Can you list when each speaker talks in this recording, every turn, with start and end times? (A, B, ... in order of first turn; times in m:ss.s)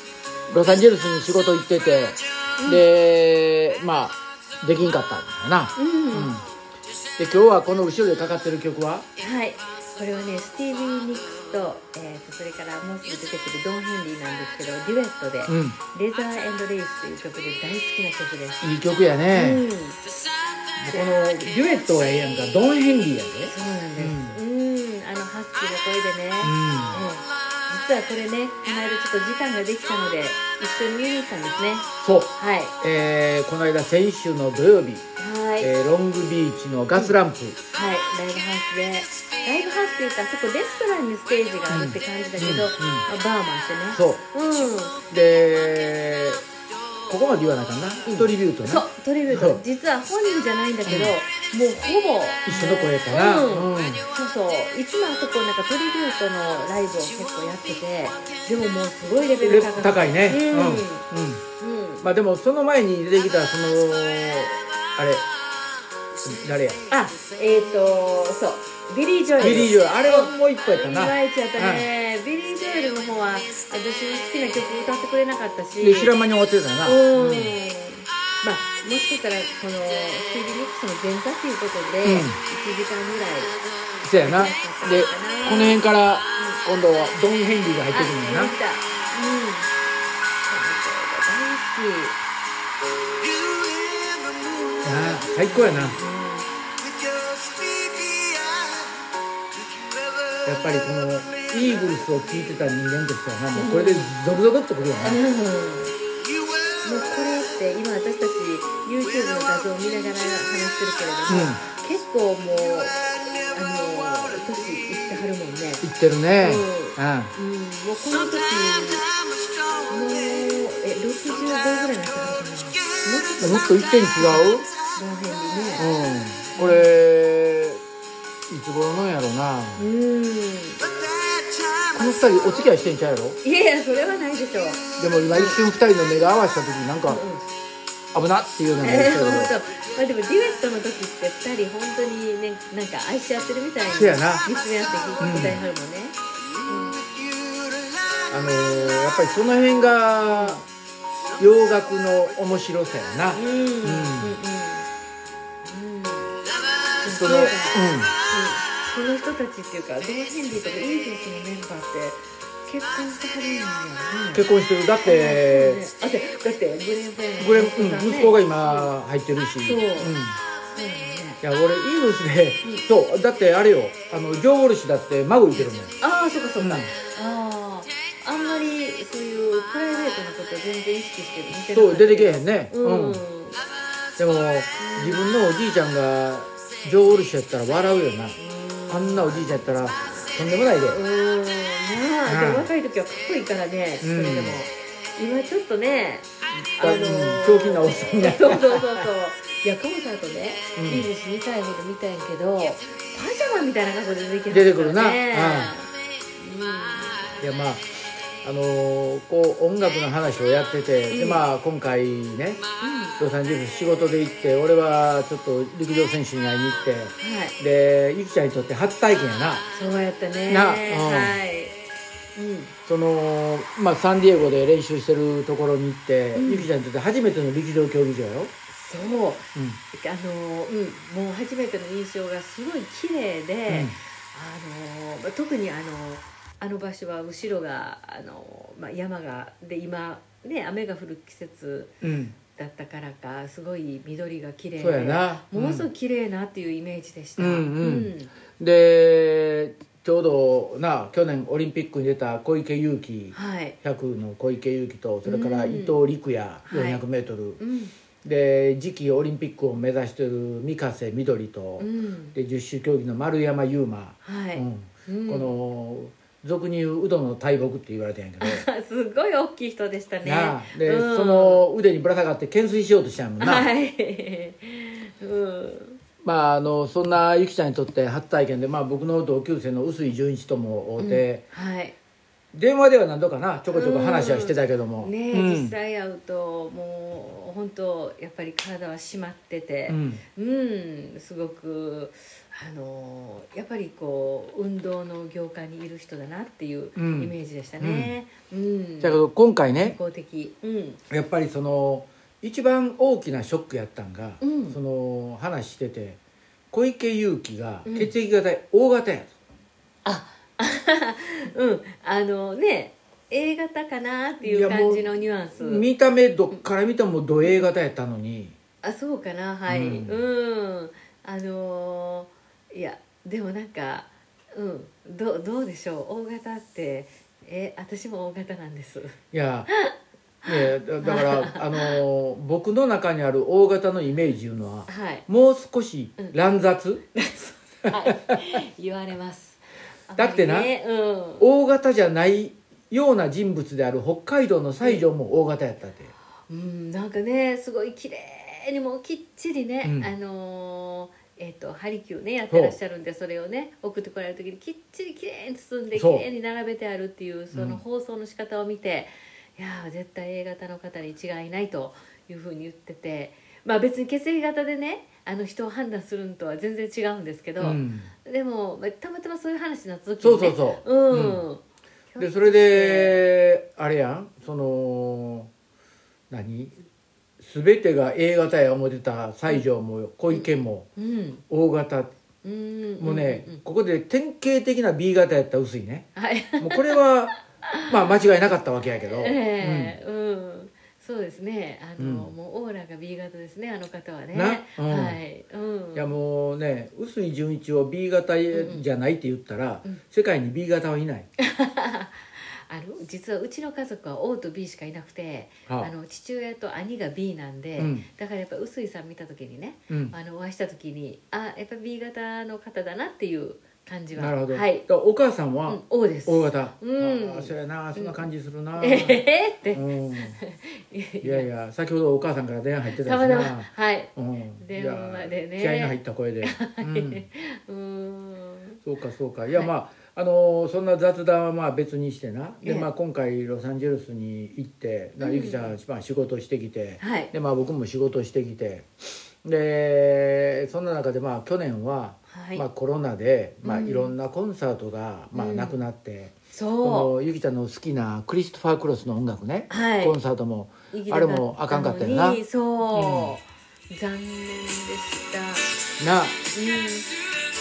0:00.5-0:06.5 A
0:02.6-0:02.9 B
0:05.8-0:06.3 B
0:07.2-0:09.1 A
0:09.2-0:18.6 B
0:15.5-0:15.8 A
0:18.6-0:19.7 A
0:19.3-0:20.0 B
0:20.8-0:24.4 A
0:23.5-0:32.7 B
0:26.4-0:27.0 A
0:32.0-0:35.1 A
0:35.2-0:35.7 B
0:35.6-0:37.6 A
0:37.7-0:45.0 B
0:41.7-0:43.1 A
0:43.9-0:44.2 A
0:45.1-0:46.4 A
0:47.1-0:49.6 A
0:48.0-1:01.1 B
0:50.9-0:51.2 A
0:52.5-0:54.1 A
0:59.4-1:01.4 A
1:01.6-1:02.1 B
1:02.0-1:05.2 A
1:06.2-1:06.8 A
1:06.9-1:16.1 B
1:09.4-1:11.9 A
1:15.8-1:17.6 A
1:16.8-1:23.6 B
1:22.0-1:22.4 A
1:24.0-1:28.5 A
1:24.2-1:25.8 B
1:26.4-1:26.6 B
1:27.9-1:29.7 B
1:30.4-1:32.2 B
1:34.8-1:36.0 A
1:35.4-1:36.5 B
1:40.4-1:45.2 A
1:43.6-1:44.1 B
1:45.0-1:45.9 B
1:46.8-1:55.8 B
1:51.3-1:51.6 A
1:55.8-1:57.3 A
1:56.4-1:59.1 B
1:59.9-2:05.8 B
2:03.4-2:04.7 A
2:05.8-2:07.8 A
2:06.5-2:07.0 B
2:08.5-2:09.9 A
2:09.8-2:10.8 B
2:11.9-2:13.4 A
2:13.4-2:15.6 B
2:15.0-2:17.2 A
2:17.1-2:17.4 B
2:18.1-2:19.5 A
2:18.8-2:27.0 B
2:23.9-2:24.5 A
2:25.2-2:25.6 A
2:28.3-2:30.6 A
2:30.3-2:30.7 B
2:31.4-2:34.4 A
2:33.3-2:34.9 B
2:35.6-2:36.4 B
2:37.0-2:44.5 B
2:37.1-2:38.1 A
2:44.3-2:45.8 A
2:45.0-2:48.9 B
2:47.4-2:50.4 A
2:49.6-2:50.2 B
2:50.7-2:51.4 B
2:51.4-2:55.9 A
2:56.0-3:03.6 B
2:56.6-2:56.9 A
3:01.7-3:03.2 A
3:04.2-3:08.4 A
3:04.8-3:05.3 B
3:08.4-3:09.6 B
3:08.9-3:11.0 A
3:10.9-3:27.4 B
3:12.3-3:12.7 A
3:14.0-3:14.6 A
3:16.8-3:19.0 A
3:20.8-3:21.1 A
3:24.5-3:25.8 A
3:27.4-3:27.9 A
3:28.4-3:32.6 A
3:31.1-3:31.4 B
3:32.8-3:33.2 B
3:33.2-3:39.6 A
3:37.2-3:37.6 B
3:39.7-3:41.8 B
3:40.5-3:41.4 A
3:42.4-3:42.7 B
3:42.9-3:48.5 A
3:46.4-3:46.7 B
3:48.7-4:01.9 B
3:53.7-3:54.0 A
4:02.0-4:02.4 A
4:02.5-4:08.3 B
4:04.8-4:05.9 A
4:07.4-4:17.6 A
4:13.3-4:13.8 B
4:15.2-4:16.0 B
4:16.7-4:17.0 B
4:17.6-4:17.9 B
4:18.2-4:28.6 A
4:21.8-4:22.4 B
4:24.2-4:25.6 B
4:28.4-4:31.6 B
4:30.2-4:33.7 A
4:33.4-4:36.0 B
4:36.2-4:41.4 A
4:41.0-4:41.9 B
4:42.5-4:45.7 A
4:43.7-4:59.2 B
4:49.9-4:50.2 A
4:57.0-4:58.1 A
4:59.0-5:00.0 A
4:59.8-5:01.0 B
5:01.1-5:06.2 A
5:04.4-5:04.8 B
5:06.7-5:09.3 A
5:07.9-5:08.1 B
5:10.0-5:15.9 B
5:14.4-5:15.1 A
5:15.6-5:18.6 A
5:18.8-5:29.2 B
5:19.7-5:20.2 A
5:29.3-5:29.7 A
5:29.7-5:29.9 B
5:30.4-5:32.0 B
5:30.5-5:37.0 A
5:34.9-5:35.2 B
5:37.2-5:41.4 B
5:40.2-5:40.7 A
5:41.4-5:46.1 A
5:46.5-6:13.2 B
5:49.8-5:50.1 A
5:52.5-5:52.8 A
5:55.9-5:56.3 A
5:57.5-5:57.8 A
6:07.6-6:08.1 A
6:10.2-6:11.4 A
6:12.2-6:15.5 A
6:16.3-6:16.8 A
6:17.4-6:20.9 A
6:20.3-6:21.4 B
6:21.5-6:22.1 A
6:22.4-6:23.6 B
6:23.0-6:27.3 A
6:26.2-6:27.0 B
6:27.7-6:28.2 B
6:27.9-6:30.0 A
6:29.2-6:36.1 B
6:32.0-6:32.3 A
6:34.3-6:35.2 A
6:36.0-6:41.3 A
6:38.5-6:38.8 B
6:41.4-6:54.8 B
6:47.8-6:48.1 A
6:49.9-6:50.2 A
6:54.2-7:00.4 A
6:55.7-6:58.3 B
6:58.8-7:01.5 B
7:01.2-7:07.2 A
7:02.9-7:08.8 B
7:08.8-7:18.9 A
7:12.6-7:12.9 B
7:15.2-7:15.8 B
7:17.0-7:17.3 B
7:19.4-7:33.4 A
7:22.3-7:22.6 B
7:23.6-7:24.1 B
7:25.3-7:25.8 B
7:26.5-7:27.1 B
7:29.7-7:30.2 B
7:30.9-7:35.7 B
7:36.0-7:36.4 A
7:36.5-7:37.1 B